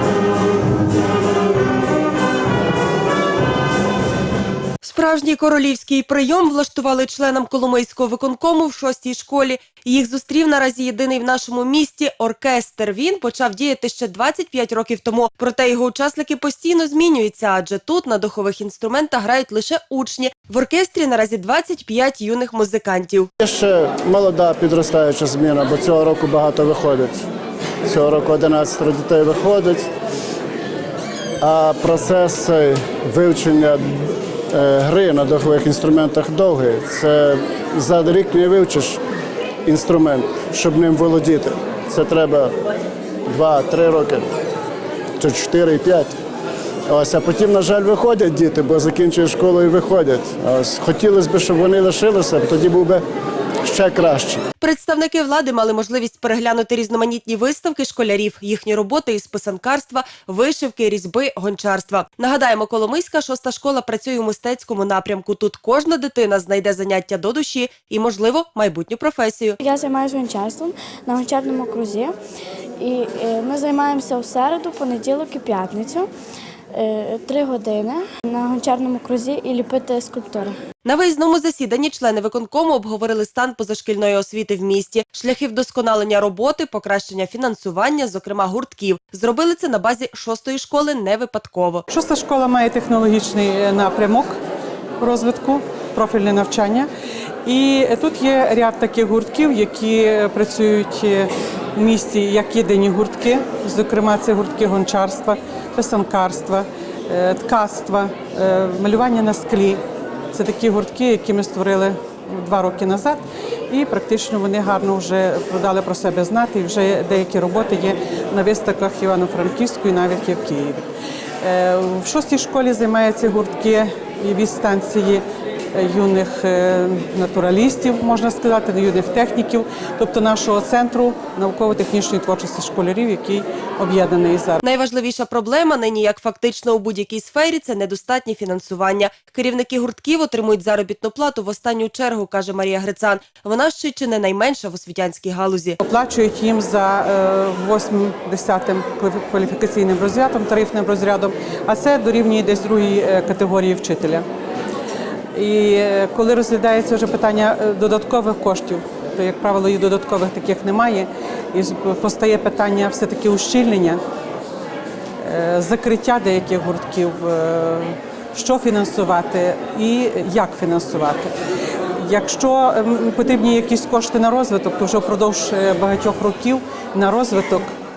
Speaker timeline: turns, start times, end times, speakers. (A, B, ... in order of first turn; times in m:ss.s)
0:04.8-0:23.3 A
0:23.4-0:27.2 B
0:27.8-0:29.9 B
0:31.4-0:39.0 B
0:39.6-0:42.5 B
0:43.3-0:44.3 B
0:45.2-0:46.1 B
0:46.9-0:53.0 B
0:53.6-0:54.4 B
0:54.6-1:09.6 A
1:09.6-1:12.1 C
1:12.8-1:16.1 C
1:16.7-1:20.6 C
1:20.8-1:31.8 A
1:31.9-1:34.4 D
1:35.0-1:36.9 D
1:37.4-1:49.8 D
1:50.3-2:00.8 D
2:01.4-2:14.6 D
2:14.6-2:25.8 A
2:25.8-2:34.2 D
2:35.3-2:44.0 D
2:45.2-2:51.3 D
2:51.9-2:57.7 D